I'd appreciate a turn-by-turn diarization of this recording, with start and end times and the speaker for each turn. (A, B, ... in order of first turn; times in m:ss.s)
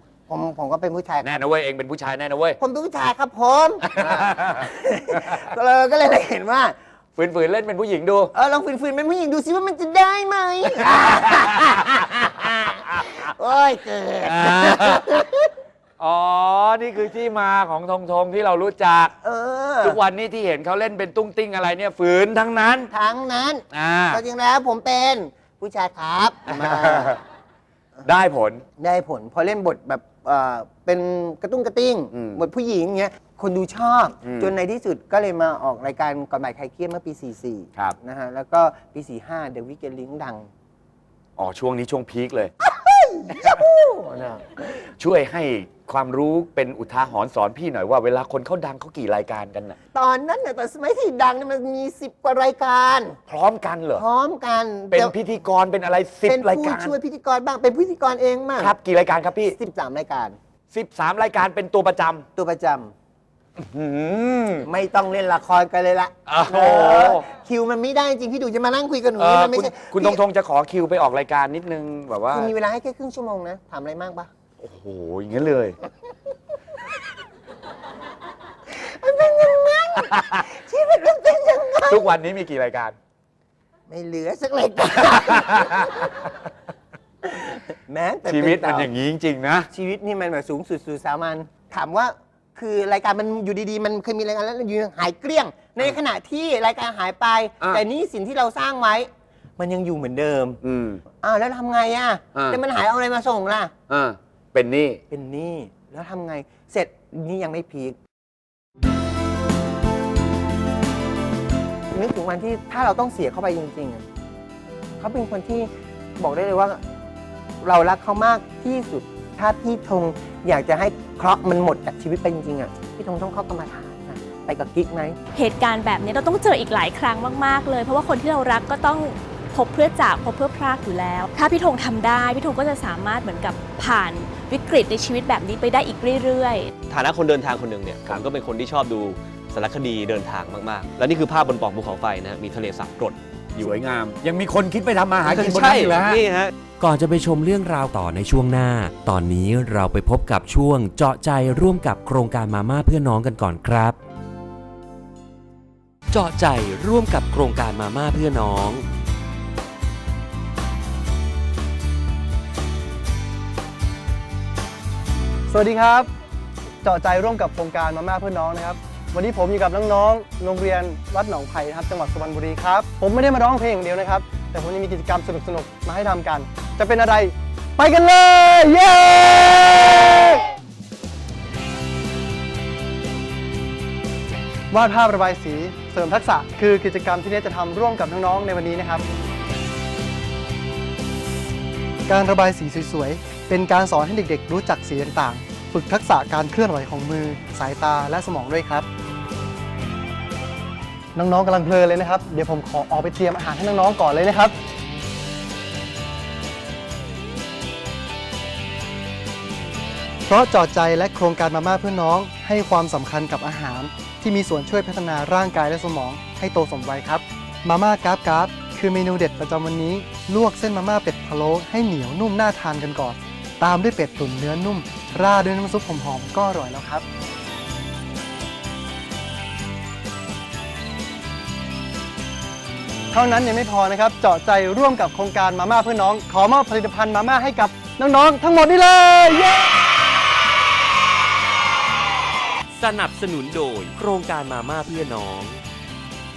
0:00.3-0:01.3 A
0:01.2-0:02.6 B
0:02.6-0:06.8 A
0:03.9-0:04.7 B
0:07.2-0:08.3 B
0:08.3-0:15.5 A
0:11.1-0:11.4 B
0:14.2-0:15.1 B
0:16.0-0:19.1 B
0:19.2-0:20.0 A
0:19.8-0:22.9 B
0:22.9-0:27.2 A
0:23.7-0:24.2 B
0:26.5-0:27.2 B
0:28.0-0:28.6 B
0:28.8-0:40.5 A
0:32.1-0:32.4 B
0:34.2-0:34.5 B
0:41.4-0:42.5 B
0:42.6-0:44.6 A
0:45.0-0:49.8 B
0:49.9-0:53.2 A
0:53.3-0:54.0 B
0:53.9-0:55.1 A
0:54.9-0:56.9 B
0:56.2-0:58.8 A
0:58.6-0:59.6 B
0:59.5-1:00.4 A
1:00.7-1:02.2 B
1:02.4-1:02.9 A
1:03.6-1:04.7 B
1:04.6-1:10.2 A
1:06.3-1:07.2 B
1:09.2-1:12.5 B
1:12.3-1:14.3 A
1:14.6-1:15.8 B
1:18.7-1:22.1 A
1:21.9-1:23.0 B
1:23.9-1:26.3 A
1:25.2-1:26.1 B
1:27.2-1:28.9 A
1:28.2-1:29.7 B
1:29.7-1:40.6 A
1:40.6-1:41.0 B
1:41.2-1:43.7 A
1:43.9-1:45.0 B
1:45.1-1:48.0 A
1:51.9-1:54.0 A
1:55.0-1:56.8 A
1:57.6-2:05.2 A
2:05.4-2:16.7 C
2:16.9-2:23.7 D
2:23.5-2:26.2 B
2:25.2-2:26.5 D
2:26.8-2:34.0 E
2:36.1-2:38.9 E
2:45.5-2:46.1 F
2:46.8-3:00.4 F
3:04.7-3:09.0 F
3:12.1-3:18.9 F
3:21.1-3:24.6 F
3:30.3-3:47.0 F
3:53.1-3:59.7 F
4:02.8-4:05.6 E